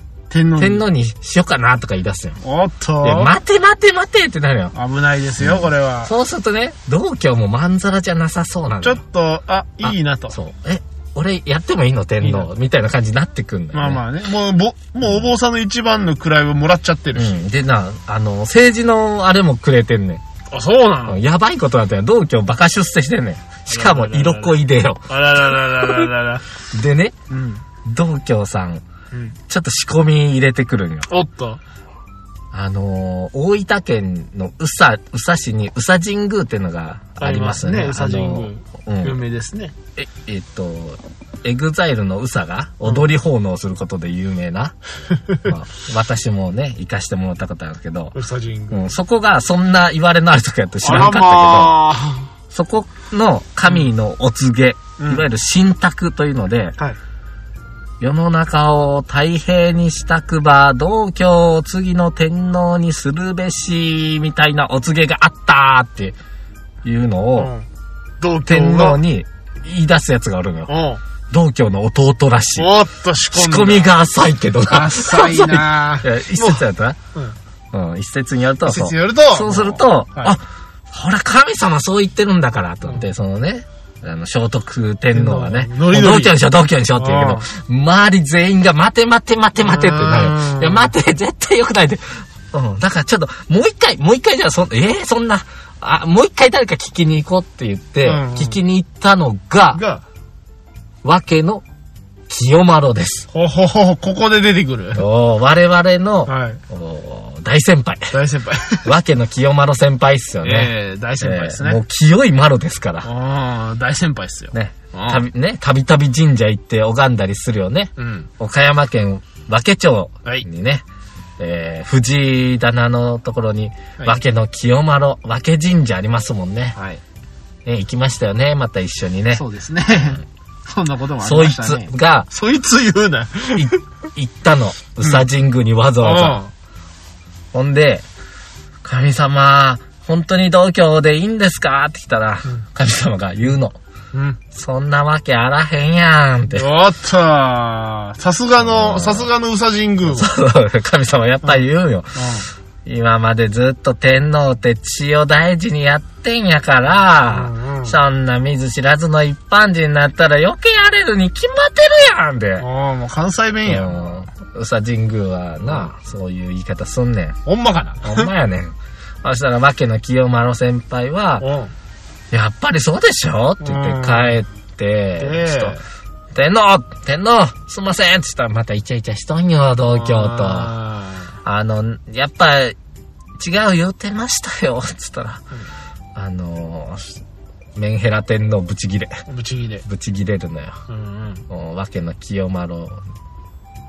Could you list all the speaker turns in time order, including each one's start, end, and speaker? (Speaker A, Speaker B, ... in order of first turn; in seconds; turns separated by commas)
Speaker A: 0.3-0.8, Speaker B: 0.6-2.4, Speaker A: 2.4-3.3, Speaker B: 3.0-4.7, Speaker A: 4.7-6.1, Speaker B: 5.4-9.0, Speaker A: 8.8-10.3, Speaker B: 9.8-14.0, Speaker A: 12.2-12.5, Speaker A: 13.7-17.4, Speaker B: 17.1-20.2, Speaker A: 20.5-21.2, Speaker B: 21.1-25.1, Speaker A: 23.7-26.4, Speaker B: 26.7-27.1, Speaker A: 27.3-27.6, Speaker B: 27.8-28.8, Speaker A: 29.1-29.4, Speaker B: 29.5-31.1, Speaker A: 31.1-31.6, Speaker B: 32.5-39.2, Speaker A: 37.2-39.8, Speaker B: 40.0-44.7, Speaker B: 45.3-48.1, Speaker A: 48.1-48.9, Speaker B: 48.7-51.8, Speaker A: 50.8-52.3, Speaker B: 52.5-56.7, Speaker A: 55.0-55.2, Speaker B: 58.0-66.2, Speaker B: 66.8-67.5, Speaker A: 67.3-67.7, Speaker A: 68.2-69.0, Speaker B: 68.4-70.8, Speaker A: 70.7-71.0, Speaker B: 71.3-72.7, Speaker A: 72.6-73.9, Speaker B: 73.3-77.0, Speaker A: 74.7-77.4, Speaker B: 77.7-99.8, Speaker A: 78.6-80.4, Speaker A: 85.1-86.4, Speaker A: 87.0-87.5, Speaker A: 89.6-90.9, Speaker A: 98.0-98.6, Speaker A: 99.7-100.0, Speaker B: 101.0-101.6, Speaker B: 102.3-103.3, Speaker A: 103.3-105.0, Speaker B: 104.9-108.1, Speaker A: 106.2-106.6, Speaker A: 108.1-108.9, Speaker B: 108.8-113.1, Speaker A: 110.4-111.8, Speaker A: 113.0-115.2, Speaker B: 114.5-120.8, Speaker A: 118.0-118.3, Speaker B: 121.4-126.8, Speaker A: 126.8-127.0, Speaker B: 127.6-129.4, Speaker A: 129.3-133.8, Speaker B: 131.2-132.3, Speaker B: 133.6-136.4, Speaker A: 136.0-136.5, Speaker B: 137.5-138.0, Speaker B: 138.8-143.8, Speaker A: 144.1-144.4, Speaker B: 144.5-146.7, Speaker A: 146.5-150.3, Speaker B: 148.6-149.3, Speaker B: 150.1-162.7, Speaker A: 152.2-152.4, Speaker A: 157.3-158.0, Speaker A: 162.6-164.1, Speaker B: 163.7-167.4, Speaker A: 167.4-168.3, Speaker B: 168.0-171.5, Speaker A: 171.4-171.7, Speaker B: 172.3-175.8, Speaker A: 173.6-174.4, Speaker A: 175.2-175.8, Speaker B: 176.3-180.7, Speaker A: 179.9-181.3, Speaker B: 181.4-182.8, Speaker B: 183.4-185.4, Speaker B: 186.2-187.2, Speaker B: 187.7-189.2, Speaker A: 189.3-189.8, Speaker B: 189.8-190.8, Speaker A: 190.9-191.4, Speaker B: 191.5-193.0